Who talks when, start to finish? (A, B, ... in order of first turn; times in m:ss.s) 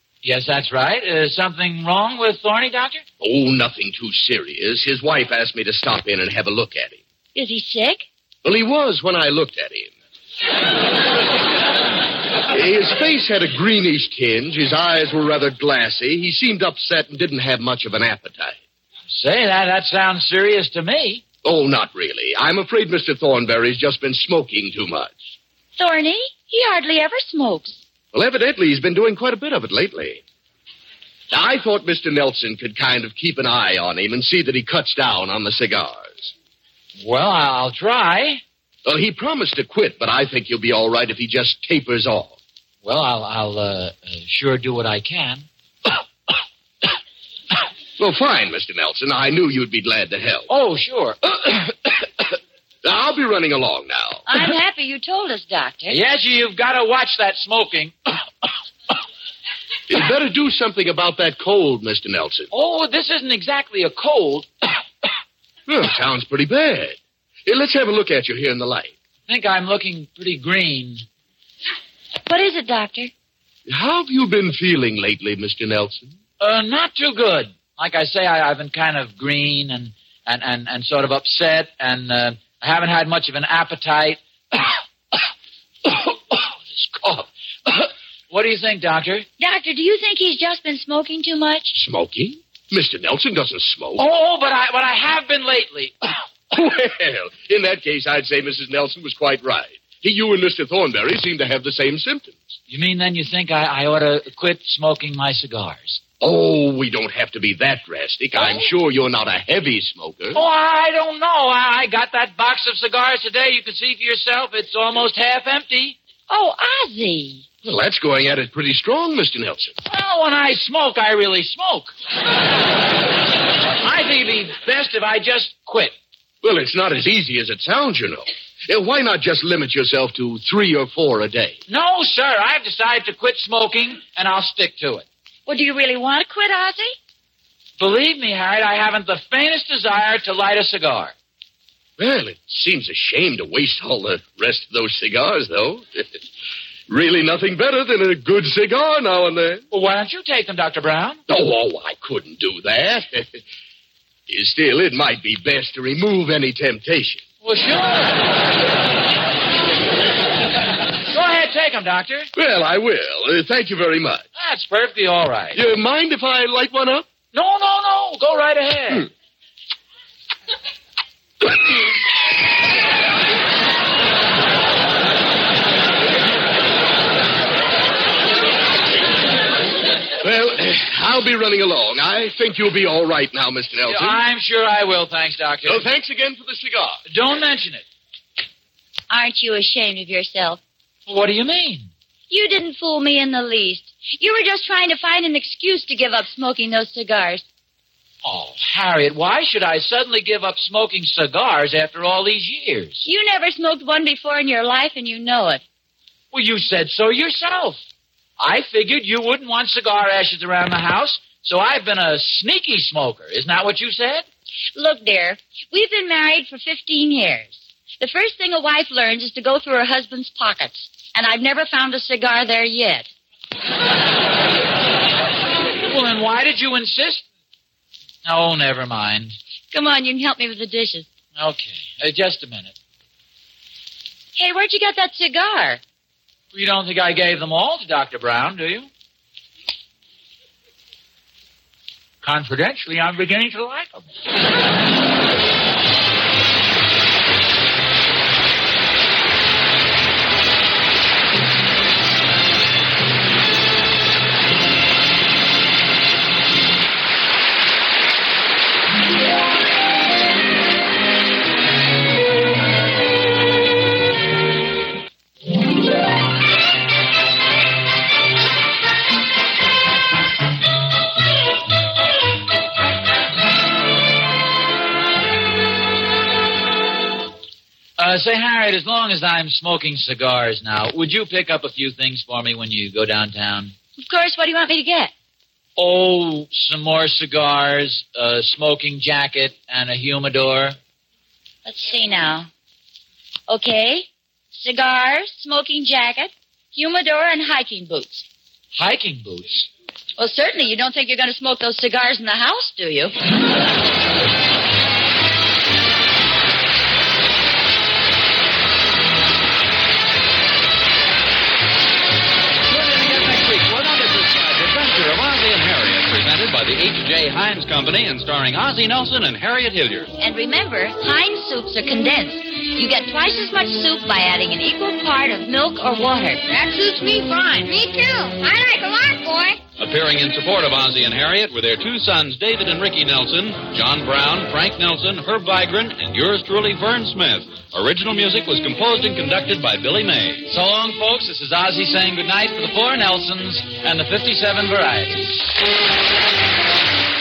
0:00.2-0:03.0 A
0:03.2-0:07.0 B
0:07.4-0:08.1 C
0:08.4-0:09.9 B
0:12.5-0:18.6 B
0:19.1-0:21.2 A
0:21.4-0:25.3 B
0:25.8-0:27.8 C
0:28.1-0:30.2 B
0:31.3-0:36.3 B
0:37.0-0:38.4 A
0:38.8-0:42.4 B
0:42.8-0:45.5 A
0:48.0-0:50.5 B
0:50.5-0:51.7 A
0:52.8-0:54.2 B
0:54.3-0:56.0 C
0:55.9-0:58.2 A
0:59.9-1:02.5 B
1:02.5-1:04.5 A
1:05.7-1:08.9 B
1:09.3-1:11.0 A
1:12.3-1:13.1 C
1:13.7-1:16.1 B
1:16.4-1:24.8 A
1:25.9-1:29.3 A
1:29.4-1:31.8 C
1:31.7-1:34.0 B
1:34.0-1:36.0 A
1:36.6-1:42.5 B
1:42.7-1:46.0 A
1:46.2-1:50.4 B
1:48.4-1:48.7 A
1:50.3-1:56.0 A
1:56.3-1:57.5 C
1:57.6-1:59.8 B
1:59.9-2:02.0 A
2:03.8-2:05.9 A
2:06.4-2:11.6 B
2:11.7-2:15.0 A
2:15.5-2:17.0 C
2:17.8-2:21.1 A
2:22.0-2:26.1 B
2:26.9-2:29.6 B
2:29.7-2:31.2 A
2:31.3-2:33.4 B
2:34.3-2:37.2 B
2:37.4-2:38.2 A
2:41.1-2:42.3 A
2:42.4-2:44.2 B
2:44.4-2:45.6 A
2:45.5-2:47.1 B
2:47.3-2:49.1 A
3:00.2-3:04.2 B
3:03.9-3:05.9 A
3:05.7-3:07.0 B
3:07.1-3:07.8 A
3:09.1-3:10.6 C
3:11.1-3:11.9 A
3:12.3-3:17.5 C
3:18.2-3:23.1 A
3:23.0-3:25.6 C
3:26.3-3:27.8 A
3:28.4-3:34.2 A
3:34.8-3:43.1 C
3:45.9-3:47.2 A
3:48.2-3:49.4 A
3:49.7-3:51.1 C
3:51.4-3:52.7 A
3:54.4-3:55.8 C
3:56.5-3:58.9 A
4:02.2-4:04.1 A
4:38.0-4:43.8 A
4:44.0-4:45.1 C
4:45.8-4:50.8 A
4:51.6-4:52.5 C
4:53.5-4:58.3 C
4:58.8-4:59.7 A
5:00.2-5:03.1 C
5:12.7-5:14.0 A
5:12.7-5:20.1 D
5:20.2-5:26.4 C
5:26.5-5:29.6 E
5:29.8-5:40.5 D
5:40.5-5:45.4 A